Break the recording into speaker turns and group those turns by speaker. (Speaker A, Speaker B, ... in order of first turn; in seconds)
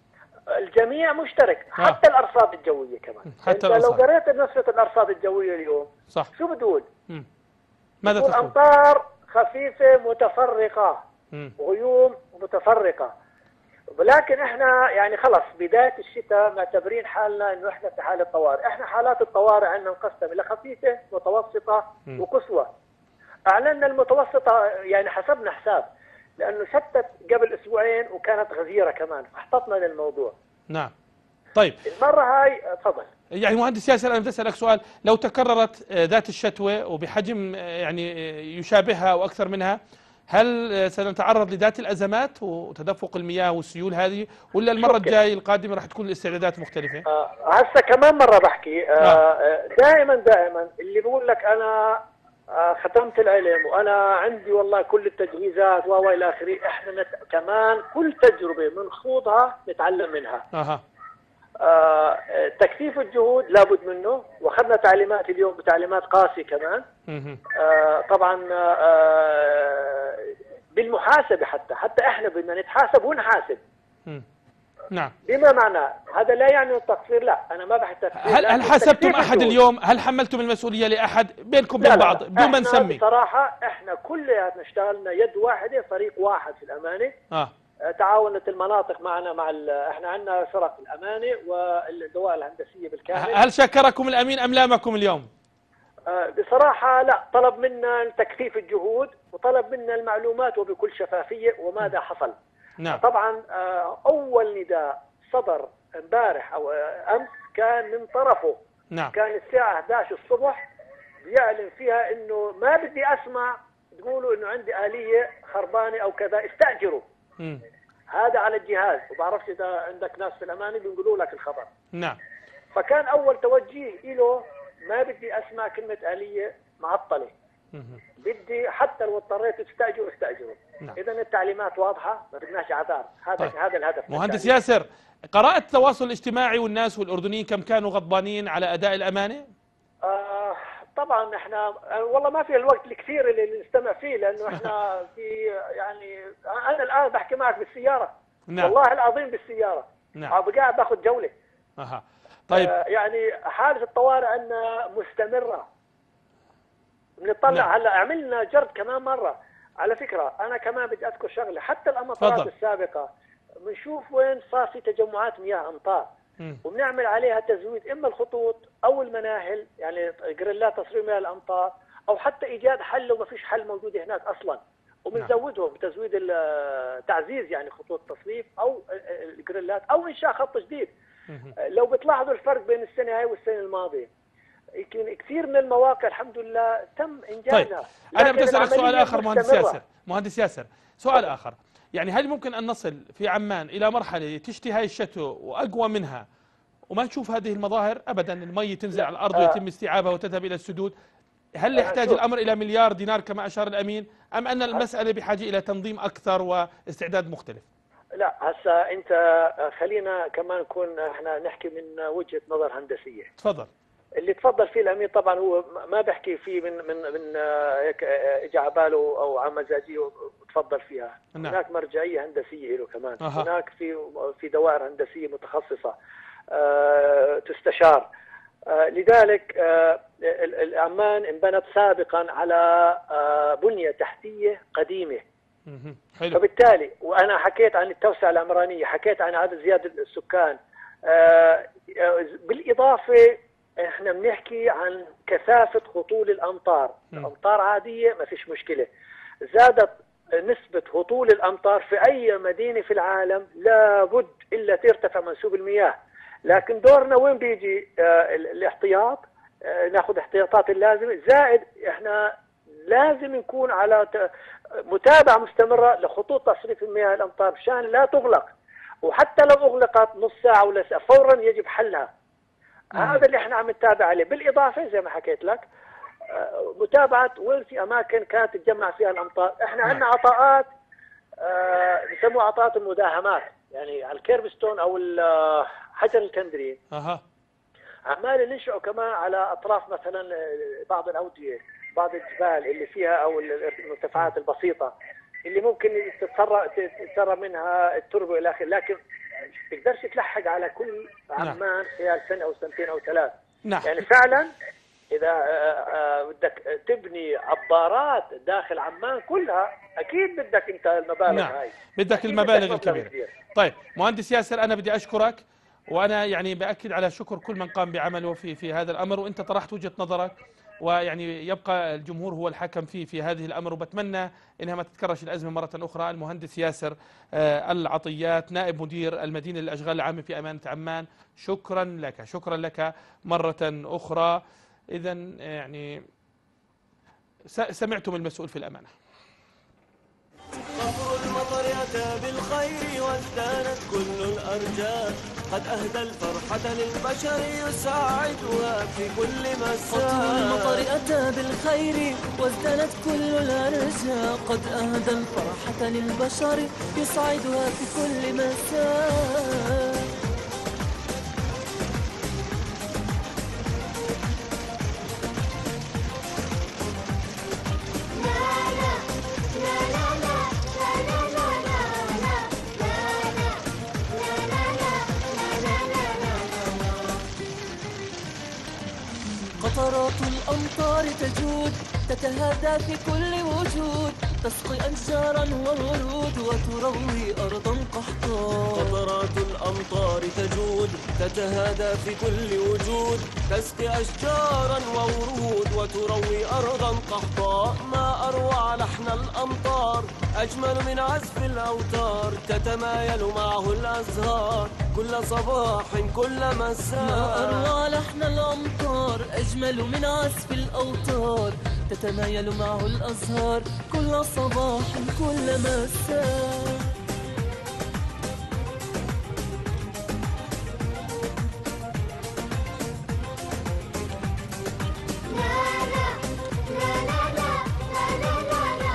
Speaker A: 0.6-6.9, 8.1-11.0, 11.6-13.1, 14.0-22.7, 23.5-25.9, 26.4-30.3, 31.9-33.1, 44.8-45.1, 47.1-52.0, 52.5-60.4, 61.6-66.8, 67.6-73.6, 75.3-79.6, 81.8-87.2, 87.9-93.4, 96.1-102.4, 102.9-108.6, 109.1-110.6, 111.2-117.0, 118.1-121.7, 122.8-127.3, 128.2-134.5, 140.0-151.3, 152.5-155.7, 157.2-163.1, 163.7-166.1, 166.6-180.9, 181.6-184.1, 184.8-189.8, 199.0-199.6, 201.8-202.2, 208.2-213.3, 214.2-225.9, 226.5-228.1, 228.7-235.2, 236.3-248.9, 249.5-262.3, 262.9-264.2, 264.9-268.5, 269.0-272.1, 273.0-275.7, 276.3-280.7, 281.4-286.8, 288.1-294.9, 295.5-299.0, 299.7-303.3, 303.9-304.5, 305.1-313.4
Speaker B: 3.3-4.0, 8.0-8.5, 33.4-39.8, 40.3-47.0, 60.5-60.8, 67.1-67.4, 78.2-83.0, 93.2-95.3, 127.7-128.0, 134.1-139.5, 151.8-152.7, 162.2-162.5, 187.5-196.3, 196.9-200.9, 201.6-207.7, 213.4-213.7, 223.2-223.5, 235.7-236.4, 273.0-273.2, 286.9-287.2, 303.7-304.0, 311.3-334.4, 334.9-336.0, 337.5-338.9
Speaker C: 340.8-350.9, 388.7-407.7
Speaker D: 349.9-360.0, 379.6-389.0, 407.0-416.9